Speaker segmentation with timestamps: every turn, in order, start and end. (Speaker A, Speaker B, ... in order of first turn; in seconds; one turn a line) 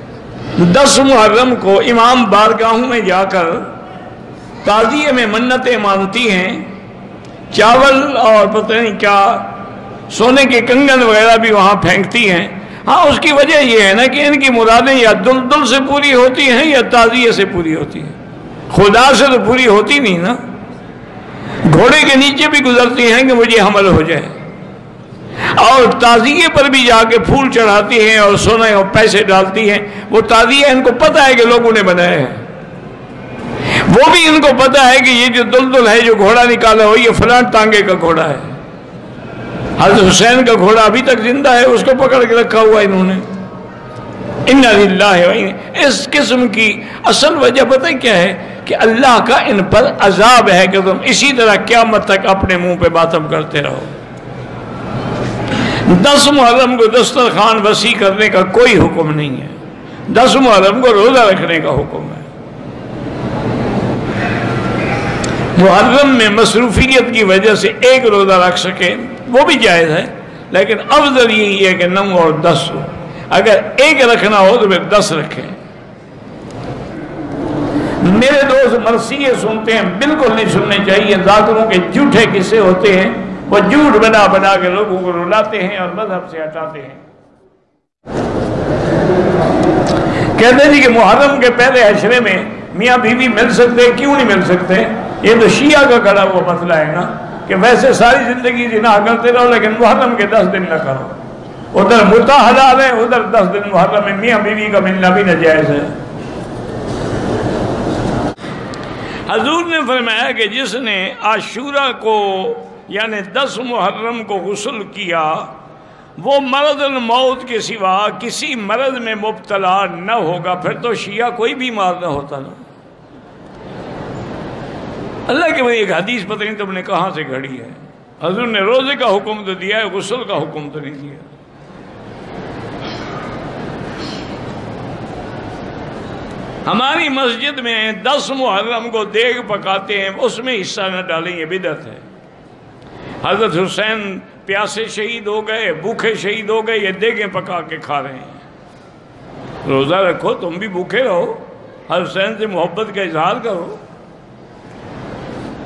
Speaker A: 0.6-3.7
Speaker A: 4.6-6.7
Speaker A: 7.5-18.1
Speaker A: 18.7-20.4
Speaker A: 21.6-24.3
Speaker A: 25.5-32.4
Speaker A: 33.8-38.5
Speaker A: 39.8-43.2
Speaker A: 44.4-53.9
Speaker A: 55.8-59.5
Speaker A: 60.1-62.3
Speaker A: 65.5-75.6
Speaker A: 78.0-87.0
Speaker A: 90.3-101.1
Speaker A: 101.7-105.9
Speaker A: 109.3-115.5
Speaker A: 116.2-122.6
Speaker A: 125.3-131.3
Speaker A: 136.6-142.0
Speaker A: 143.2-148.4
Speaker A: 149.6-153.8